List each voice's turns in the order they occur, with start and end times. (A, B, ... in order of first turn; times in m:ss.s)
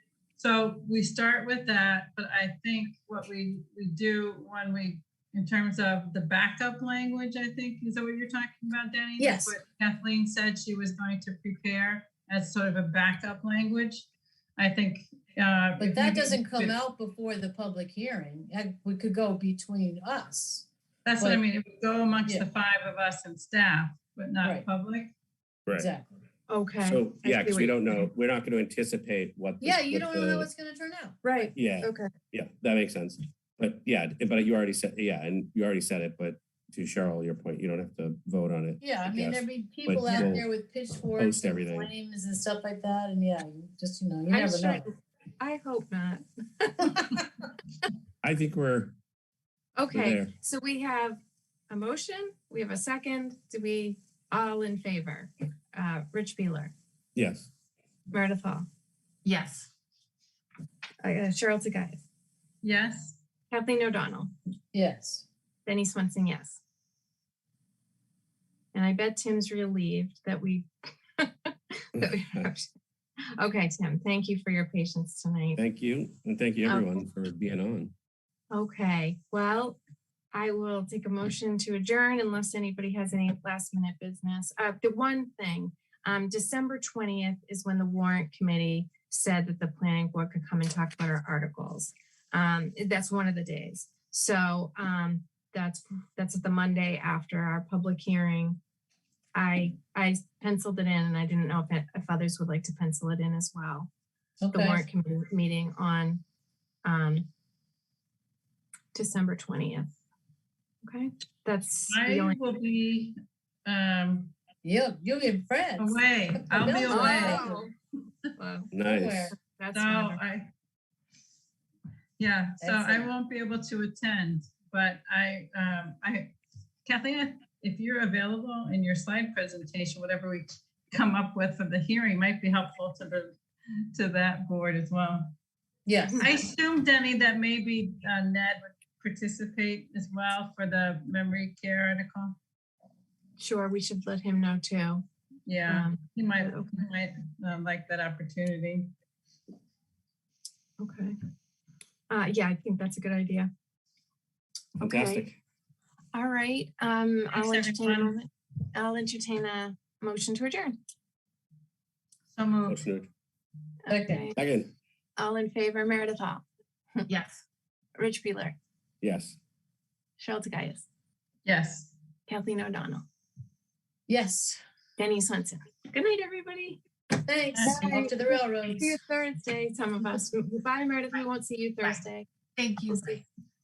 0:00.4-0:16.8 A
0:09.2-0:09.6 B
0:15.8-0:20.7 B
0:21.0-0:25.1 A
0:25.8-0:26.1 B
0:26.5-0:27.8 C
0:26.8-0:30.5 D
0:29.6-0:31.2 B
0:31.2-0:32.1 C
0:31.5-0:40.5 D
0:38.8-0:44.8 B
0:41.1-0:41.9 D
0:44.3-0:47.3 C
0:48.2-0:49.0 D
0:49.8-0:56.7 C
0:49.9-0:50.3 D
0:57.2-0:57.5 D
0:58.1-0:58.7 C
0:59.2-0:59.7 C
1:01.0-1:02.0 C
1:02.6-1:03.2 A
1:03.5-1:04.3 C
1:04.7-1:05.2 B
1:05.6-1:06.6 C
1:08.7-1:12.7 C
1:12.0-1:12.5 D
1:13.4-1:15.6 C
1:15.6-1:17.9 D
1:16.6-1:17.0 C
1:18.5-1:19.8 C
1:20.3-1:38.6 C
1:39.3-1:43.9 C
1:44.4-1:44.8 B
1:44.5-1:46.2 C
1:46.8-1:47.3 C
1:48.9-1:49.9 C
1:50.8-1:52.6 C
1:51.9-1:54.3 A
1:54.6-1:57.6 B
1:55.8-1:57.5 A
1:56.9-1:57.7 C
1:58.4-1:58.7 C
1:58.7-1:59.3 D
1:58.8-1:59.3 B
1:59.3-2:00.2 C
1:59.7-2:00.5 A
2:02.2-2:13.4 A
2:02.6-2:03.1 B
2:13.9-2:15.3 A
2:15.8-2:16.2 B
2:16.0-2:16.4 C
2:16.2-2:22.4 A
2:23.4-2:25.0 C
2:25.5-2:28.9 A
2:25.7-2:26.7 C
2:30.8-2:31.1 C
2:32.1-2:33.5 C
2:34.8-2:35.3 C
2:34.8-2:35.4 D
2:36.1-2:40.7 C
2:37.3-2:38.1 A
2:42.3-2:42.8 A
2:42.6-2:43.1 D
2:43.8-2:44.3 C
2:43.9-2:44.3 B
2:44.3-2:44.7 D
2:45.2-2:46.4 C
2:47.1-2:47.4 C
2:48.0-2:48.6 C
2:49.0-2:49.4 D
2:50.2-2:50.8 C
2:51.4-2:51.9 A
2:52.3-2:53.0 C
2:54.1-2:54.6 B
2:55.0-2:56.8 C
2:57.2-2:59.0 B
2:57.5-2:58.0 A
2:57.7-3:03.2 C